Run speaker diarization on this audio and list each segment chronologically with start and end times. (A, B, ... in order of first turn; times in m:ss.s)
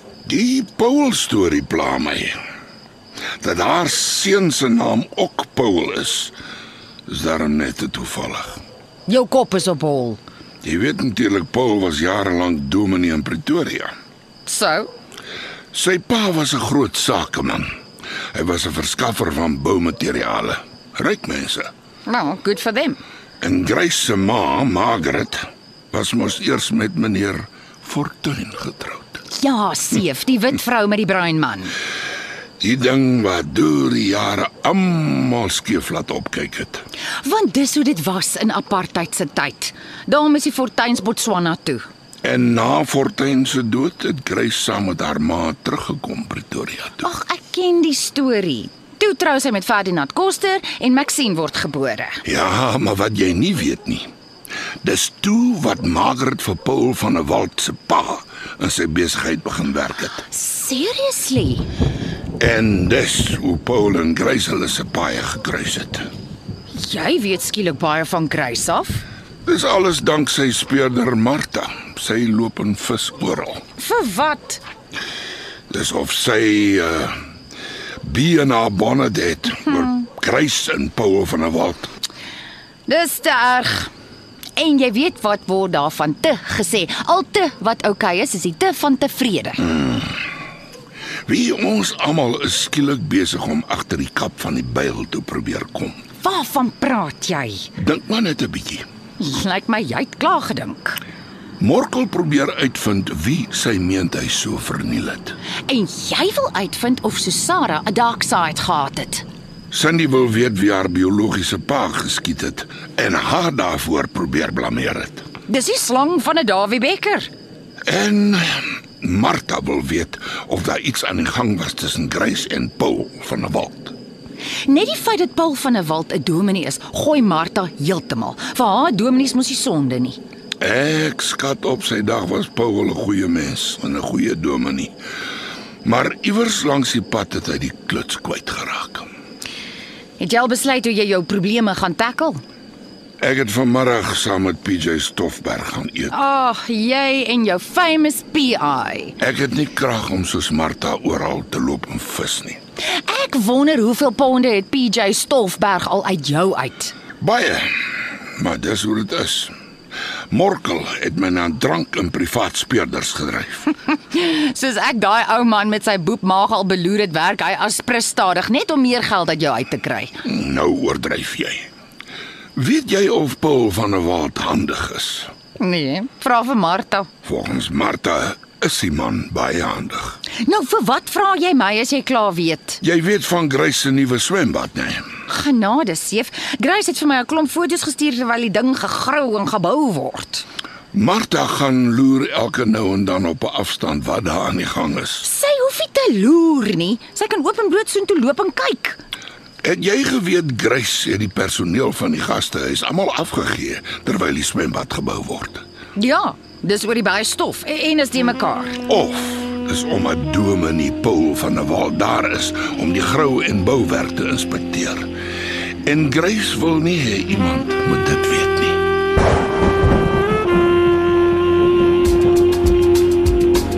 0:00.2-0:02.4 A
0:03.4-0:06.3 A
0:07.1-0:08.6 A
0:09.1-0:10.2 B
0:10.6-0:13.9 A
0:14.4-0:14.9 B
0:15.7-0:17.7 A
0:18.3-0:21.7 A
0:22.1-0:23.0 B
0:23.4-0:29.2 A
0:29.3-0:31.8 B
0:32.6-0:36.8 A
0:37.2-0:41.9 B
0:42.2-0:47.1 A
0:47.0-0:52.2 B
0:52.2-0:54.1 A
0:54.8-1:00.2 A
1:00.3-1:01.7 B
1:02.4-1:06.1 A
1:06.8-1:09.0 B
1:09.5-1:13.6 A
1:13.8-1:14.6 B
1:15.7-1:17.1 A
1:18.0-1:21.9 A
1:22.9-1:23.9 B
1:24.6-1:29.7 B
1:31.3-1:36.0 A
1:36.2-1:37.7 B
1:37.8-1:38.8 A
1:39.2-1:41.0 B
1:41.6-1:45.4 A
1:45.7-1:49.2 B
1:49.7-1:55.2 A
1:55.5-1:57.3 B
1:57.9-2:04.0 A
2:04.7-2:10.2 B
2:10.6-2:15.0 A
2:15.8-2:19.1 A
2:20.2-2:22.4 B
2:23.2-2:26.1 A
2:26.1-2:29.2 B
2:29.2-2:32.6 A
2:33.0-2:36.9 B
2:37.2-2:37.7 A
2:38.4-2:39.5 A
2:40.3-2:43.7 A
2:44.1-2:50.1 B
2:50.2-2:51.7 A
2:52.6-2:55.3 A
2:55.6-2:57.1 B
2:57.2-3:00.2 A
3:00.4-3:02.8 B
3:02.8-3:05.1 A
3:05.3-3:10.4 B
3:10.9-3:15.2 A
3:15.2-3:19.0 B
3:19.6-3:25.6 A
3:26.0-3:28.8 B
3:28.9-3:35.1 A
3:35.8-3:38.8 A